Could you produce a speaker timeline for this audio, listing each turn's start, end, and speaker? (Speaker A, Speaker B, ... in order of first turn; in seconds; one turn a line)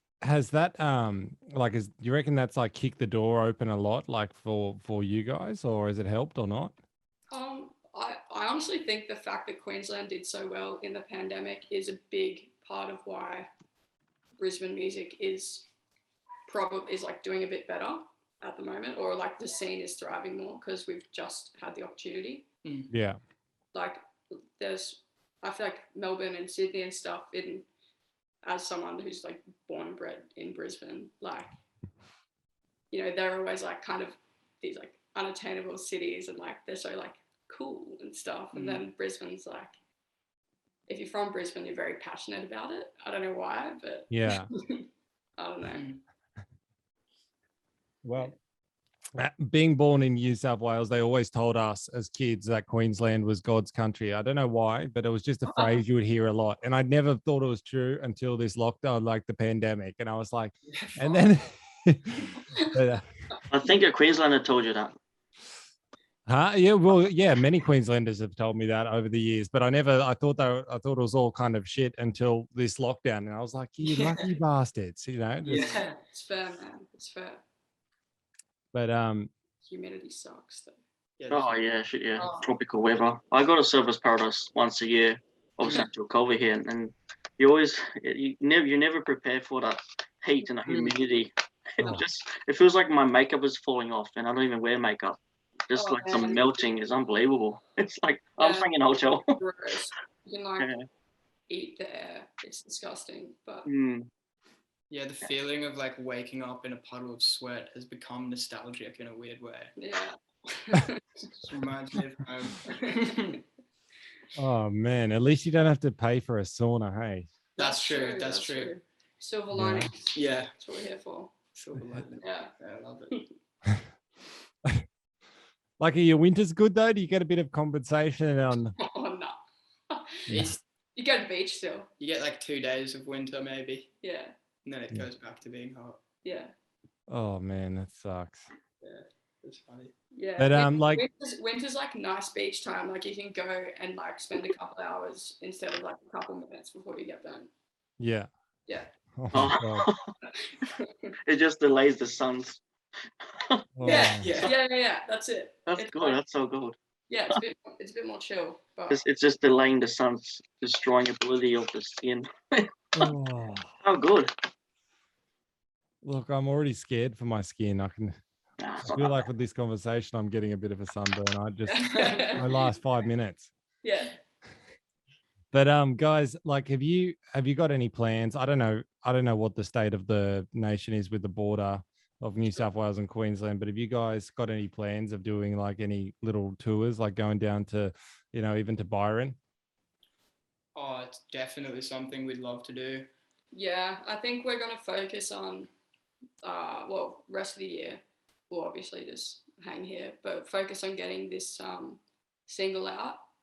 Speaker A: 0.2-6.8
Speaker B: 7.3-13.5
Speaker B: 14.4-15.7
Speaker B: 16.5-22.5
Speaker C: 22.6-22.9
Speaker A: 22.9-23.2
Speaker B: 23.7-24.0
Speaker B: 24.6-27.7
Speaker B: 28.4-31.6
Speaker B: 32.9-39.7
Speaker C: 38.5-38.8
Speaker B: 40.9-44.8
Speaker A: 44.1-44.5
Speaker B: 45.4-45.9
Speaker C: 45.7-46.0
Speaker A: 49.1-63.0
Speaker B: 55.5-55.8
Speaker C: 60.7-61.2
Speaker D: 63.5-65.0
Speaker A: 66.3-75.8
Speaker C: 73.8-74.3
Speaker C: 75.4-76.0
Speaker B: 76.1-77.4
Speaker A: 78.7-79.3
Speaker B: 79.6-80.8
Speaker C: 81.2-81.5
Speaker D: 81.3-95.2
Speaker C: 82.2-82.5
Speaker C: 85.6-85.9
Speaker C: 90.7-91.0
Speaker D: 95.7-99.3
Speaker B: 95.7-96.7
Speaker B: 98.4-98.7
Speaker B: 99.3-100.7
Speaker D: 100.6-100.9
Speaker B: 101.5-103.7
Speaker D: 103.7-104.1
Speaker C: 104.9-109.7
Speaker B: 109.8-111.3
Speaker C: 111.3-113.4
Speaker B: 112.7-113.1
Speaker A: 114.4-117.3
Speaker C: 117.6-118.7
Speaker B: 117.6-121.3
Speaker A: 119.5-119.9
Speaker C: 120.1-120.5
Speaker C: 121.5-123.2
Speaker B: 122.2-122.5
Speaker A: 125.8-128.8
Speaker B: 128.8-129.4
Speaker B: 129.9-130.3
Speaker A: 130.3-130.6
Speaker C: 130.3-130.6
Speaker B: 130.9-131.9
Speaker C: 132.0-133.9
Speaker B: 134.0-134.3
Speaker C: 134.6-136.0
Speaker B: 136.2-136.5
Speaker A: 137.1-138.5
Speaker C: 138.8-139.9
Speaker B: 140.1-147.5
Speaker A: 140.4-141.1
Speaker A: 148.0-148.3
Speaker A: 149.2-149.9
Speaker D: 149.3-150.1
Speaker B: 150.4-151.1
Speaker D: 151.3-152.6
Speaker D: 153.3-153.7
Speaker A: 153.8-154.3
Speaker C: 153.8-154.5
Speaker B: 153.8-156.2
Speaker D: 155.7-156.8
Speaker B: 157.1-159.0
Speaker D: 158.9-163.1
Speaker A: 162.9-163.7
Speaker D: 163.8-164.3
Speaker A: 166.0-168.2
Speaker D: 168.6-169.2
Speaker A: 168.8-173.5
Speaker B: 171.7-172.7
Speaker C: 171.9-172.5
Speaker B: 173.8-174.2
Speaker A: 175.5-189.4
Speaker C: 190.8-193.1
Speaker B: 193.5-195.7
Speaker B: 196.4-203.2